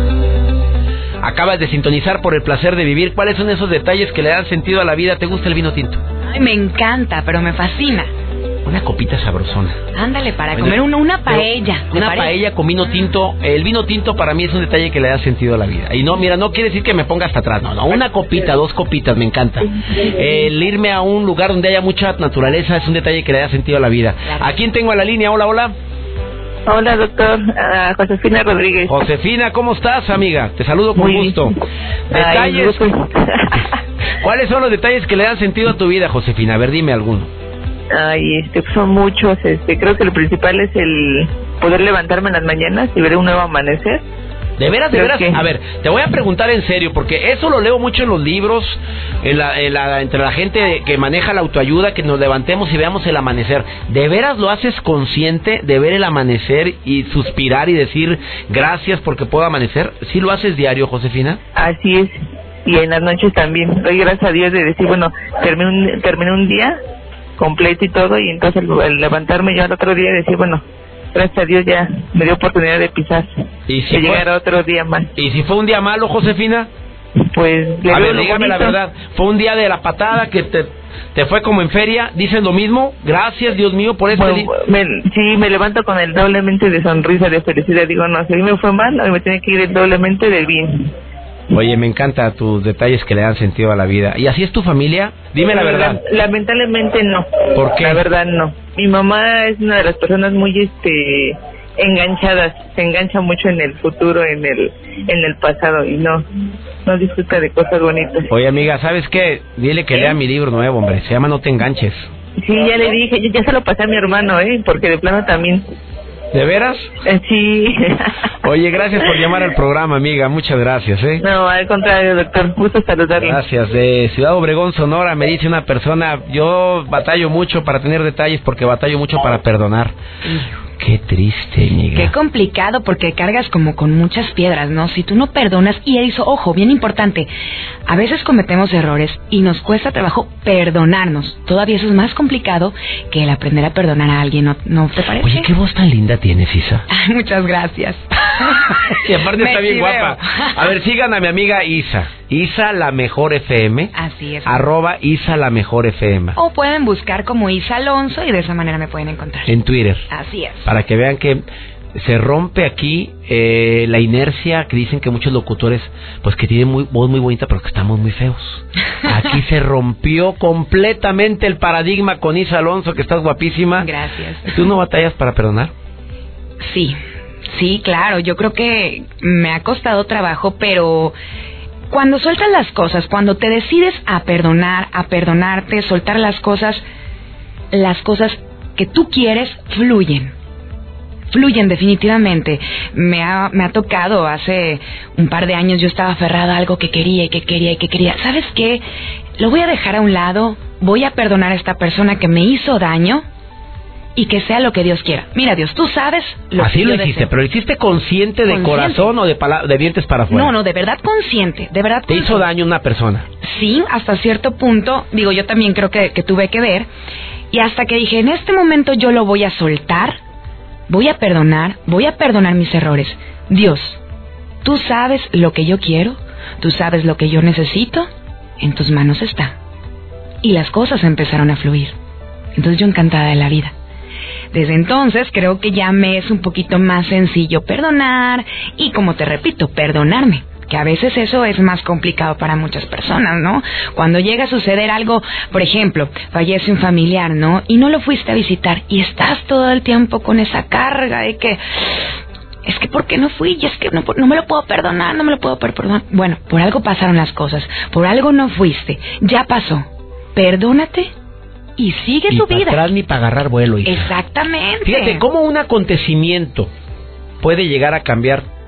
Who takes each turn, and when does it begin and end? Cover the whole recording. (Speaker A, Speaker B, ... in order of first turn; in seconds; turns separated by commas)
Speaker A: 1.2-6.0, Speaker B: 6.3-8.1, Speaker A: 8.6-9.8, Speaker B: 9.9-12.3, Speaker A: 10.6-25.8, Speaker C: 26.7-29.0, Speaker A: 28.9-31.6, Speaker C: 31.0-31.5, Speaker A: 32.1-32.8, Speaker C: 32.1-33.7, Speaker A: 34.1-37.3, Speaker C: 37.9-44.0, Speaker A: 44.6-61.4, Speaker C: 44.9-45.4, Speaker C: 61.5-66.8, Speaker C: 67.4-70.6, Speaker C: 71.1-73.3, Speaker A: 73.7-74.3, Speaker C: 73.9-75.1, Speaker A: 75.2-76.7, Speaker C: 77.2-78.8, Speaker A: 77.9-84.5, Speaker C: 84.1-90.9, Speaker A: 91.5-96.0, Speaker C: 95.4-106.2, Speaker A: 97.5-98.0, Speaker C: 106.8-108.3, Speaker A: 108.3-112.1, Speaker C: 112.4-115.6, Speaker A: 116.3-116.9, Speaker C: 117.0-118.2, Speaker A: 118.4-121.2, Speaker C: 121.2-123.4, Speaker A: 123.2-129.9, Speaker A: 130.8-132.1, Speaker B: 131.9-137.3, Speaker B: 137.9-145.5, Speaker A: 145.2-146.9, Speaker B: 146.9-150.6, Speaker A: 148.7-153.9, Speaker B: 153.9-154.7, Speaker A: 154.4-156.4, Speaker B: 156.4-159.5, Speaker A: 159.5-160.1, Speaker B: 160.1-160.7, Speaker A: 160.6-161.4, Speaker A: 161.9-173.9, Speaker B: 173.8-174.6, Speaker A: 174.4-175.7, Speaker B: 176.6-177.0, Speaker B: 177.5-181.2, Speaker B: 181.9-186.8, Speaker B: 187.7-190.3, Speaker B: 191.3-198.8, Speaker B: 199.4-203.2, Speaker B: 204.2-207.3, Speaker A: 206.6-210.6, Speaker B: 208.5-209.1, Speaker B: 210.3-212.4, Speaker A: 212.1-213.3, Speaker B: 213.4-216.9, Speaker B: 217.5-220.2, Speaker B: 220.9-224.0, Speaker B: 224.6-228.1, Speaker B: 228.6-229.6, Speaker B: 230.4-231.9, Speaker B: 232.6-233.7, Speaker B: 234.5-252.1, Speaker B: 252.7-261.1, Speaker B: 261.8-262.9, Speaker A: 262.3-264.1, Speaker B: 263.9-265.2, Speaker A: 264.9-266.7, Speaker A: 267.4-268.5